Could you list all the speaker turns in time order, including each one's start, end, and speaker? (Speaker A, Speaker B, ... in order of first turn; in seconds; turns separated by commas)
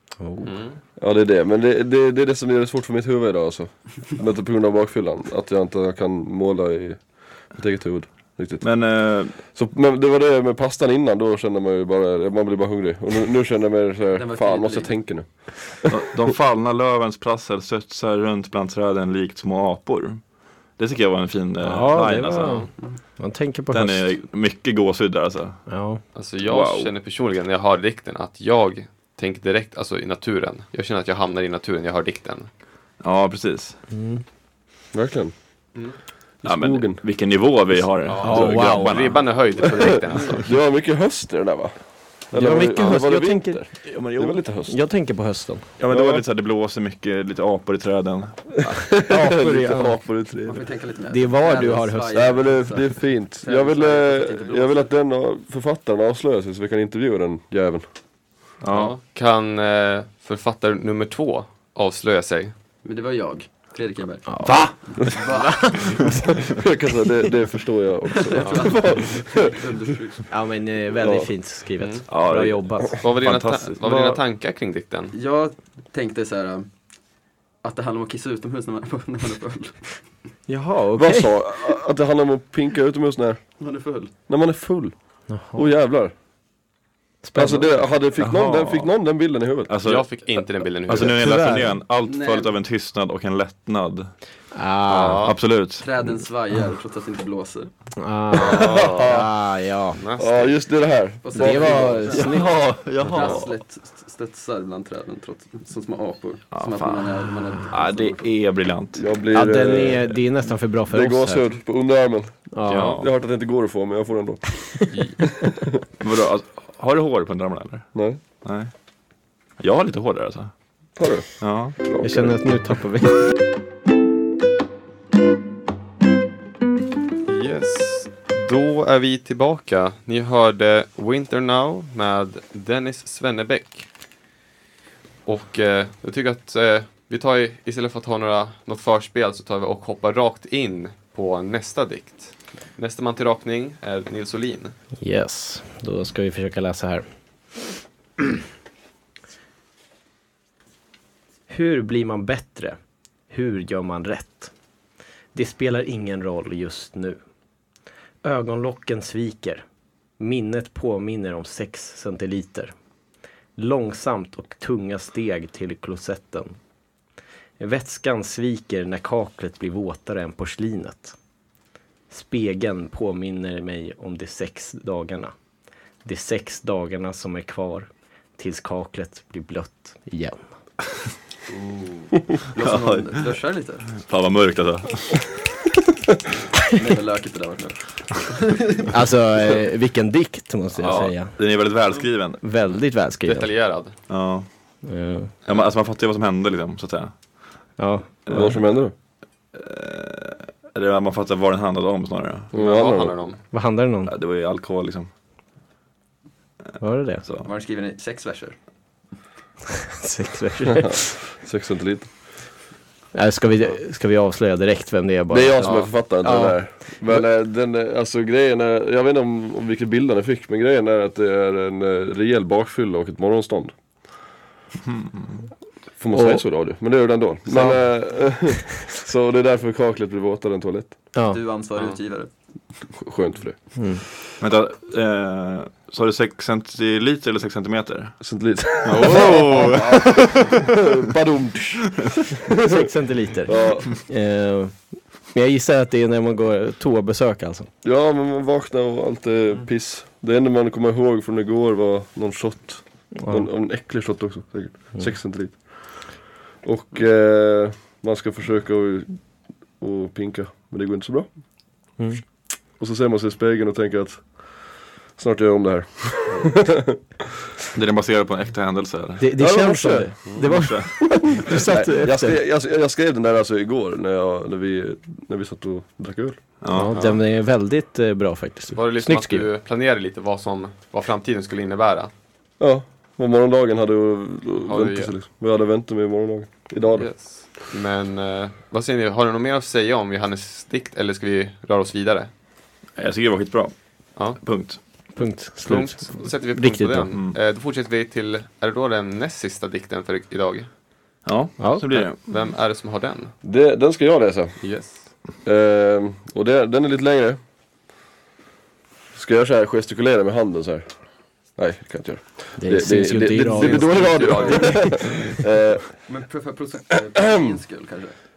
Speaker A: 0.2-0.5, Speaker B: 0.4-0.8, Speaker C: 1.0-8.7, Speaker D: 8.6-9.4, Speaker C: 9.3-16.3, Speaker E: 14.1-14.9, Speaker D: 15.9-20.2, Speaker D: 20.8-22.7, Speaker A: 21.6-24.1, Speaker D: 23.7-25.6, Speaker A: 25.7-26.0, Speaker B: 26.1-32.5, Speaker D: 26.4-26.9, Speaker D: 33.0-33.8, Speaker A: 33.9-34.2, Speaker C: 34.9-35.3, Speaker C: 36.4-37.0, Speaker D: 36.4-39.3, Speaker B: 38.0-40.5, Speaker A: 38.2-39.1, Speaker C: 39.6-41.8, Speaker C: 42.3-44.7, Speaker A: 42.3-43.6, Speaker D: 43.9-44.4, Speaker A: 44.7-45.7, Speaker D: 45.8-48.7, Speaker C: 45.9-46.2, Speaker C: 48.7-50.7, Speaker A: 49.0-50.0, Speaker E: 50.5-54.9, Speaker A: 51.1-52.4, Speaker C: 52.1-57.8, Speaker D: 58.6-58.9, Speaker B: 58.7-62.5, Speaker E: 62.8-66.0, Speaker A: 64.3-66.1, Speaker D: 64.5-64.8, Speaker C: 66.4-69.6, Speaker E: 68.2-70.3, Speaker B: 68.3-68.8, Speaker A: 70.3-72.9, Speaker C: 71.0-71.3, Speaker B: 71.8-72.0, Speaker D: 72.1-74.2, Speaker B: 73.0-75.1, Speaker E: 75.1-76.7, Speaker E: 77.6-79.9, Speaker A: 80.5-81.3, Speaker C: 81.0-83.4, Speaker E: 83.6-84.1, Speaker C: 84.3-84.9, Speaker A: 85.3-85.7, Speaker C: 85.5-86.1, Speaker A: 87.2-87.8, Speaker C: 87.3-89.7, Speaker D: 88.2-88.9, Speaker D: 89.7-90.1, Speaker B: 89.8-91.2, Speaker D: 90.9-94.1, Speaker A: 91.0-91.8, Speaker E: 92.0-92.5, Speaker A: 94.5-95.3, Speaker B: 94.9-95.4, Speaker D: 95.2-96.1, Speaker E: 95.8-97.7, Speaker A: 98.0-100.0, Speaker C: 98.3-99.2, Speaker B: 98.3-99.2, Speaker B: 100.0-100.5, Speaker C: 100.2-102.2, Speaker E: 101.2-108.3, Speaker A: 101.3-102.6, Speaker D: 102.2-103.5, Speaker D: 106.5-109.1, Speaker C: 108.9-110.0, Speaker A: 109.3-111.5, Speaker C: 110.9-115.6, Speaker A: 112.5-113.0, Speaker B: 112.7-113.0, Speaker D: 112.7-113.1, Speaker A: 114.8-115.2, Speaker D: 116.0-118.7, Speaker C: 117.9-118.2, Speaker D: 119.6-120.5, Speaker C: 121.0-122.3, Speaker D: 121.4-121.8, Speaker A: 122.0-123.3, Speaker B: 127.3-133.9, Speaker B: 135.2-144.7, Speaker A: 145.0-147.0, Speaker A: 151.5-152.8, Speaker A: 153.3-154.5, Speaker A: 155.3-157.2, Speaker A: 158.2-159.6, Speaker A: 160.2-162.7, Speaker A: 163.6-166.6, Speaker A: 167.6-171.2, Speaker A: 172.1-175.3, Speaker A: 176.0-180.5, Speaker E: 181.5-183.9, Speaker D: 182.6-183.3, Speaker D: 183.9-185.4, Speaker E: 186.7-188.9, Speaker A: 188.9-191.3, Speaker D: 190.8-192.4, Speaker A: 192.4-193.5, Speaker B: 193.2-194.0, Speaker D: 194.1-194.5, Speaker A: 194.8-195.3, Speaker D: 195.4-197.1, Speaker A: 197.8-198.6, Speaker D: 198.3-198.6, Speaker C: 198.3-198.9, Speaker D: 199.5-202.5, Speaker C: 202.5-203.2, Speaker B: 202.5-203.4, Speaker A: 203.5-204.1, Speaker D: 204.1-205.1, Speaker A: 206.8-207.2, Speaker E: 207.4-208.6, Speaker A: 209.9-211.1, Speaker C: 210.7-212.1, Speaker A: 213.1-217.2, Speaker C: 215.3-223.7, Speaker B: 215.6-215.9, Speaker D: 224.9-225.4, Speaker C: 226.0-230.9, Speaker A: 226.1-226.4, Speaker A: 227.5-228.3, Speaker A: 231.1-231.4, Speaker E: 231.3-232.3, Speaker C: 232.9-233.8, Speaker A: 233.8-234.0, Speaker D: 234.4-238.2, Speaker C: 238.2-242.9, Speaker D: 238.8-240.8, Speaker B: 238.9-239.7, Speaker A: 242.6-244.8, Speaker C: 243.4-243.9, Speaker A: 245.3-247.7, Speaker C: 247.8-256.0, Speaker A: 253.1-253.5, Speaker C: 256.6-259.2, Speaker C: 259.8-261.3, Speaker C: 262.8-264.4, Speaker C: 265.2-267.0, Speaker D: 267.7-269.3, Speaker A: 269.2-272.4, Speaker C: 269.4-270.4, Speaker D: 270.4-271.3, Speaker C: 271.1-276.4, Speaker D: 276.6-277.0, Speaker A: 276.7-279.5, Speaker B: 278.7-282.1, Speaker C: 282.6-287.1, Speaker B: 284.6-285.1, Speaker B: 286.9-292.3, Speaker D: 292.9-293.7, Speaker D: 294.3-294.8, Speaker A: 295.1-297.1, Speaker B: 295.6-300.7, Speaker D: 297.1-297.4, Speaker D: 301.2-302.4, Speaker A: 301.6-302.0, Speaker B: 301.9-303.3, Speaker C: 303.4-304.6, Speaker B: 304.6-305.0, Speaker C: 305.4-307.4, Speaker C: 309.1-310.9, Speaker C: 311.6-316.0, Speaker A: 312.6-315.4, Speaker E: 313.5-314.8, Speaker B: 314.1-314.5, Speaker E: 316.1-318.1, Speaker C: 317.1-317.6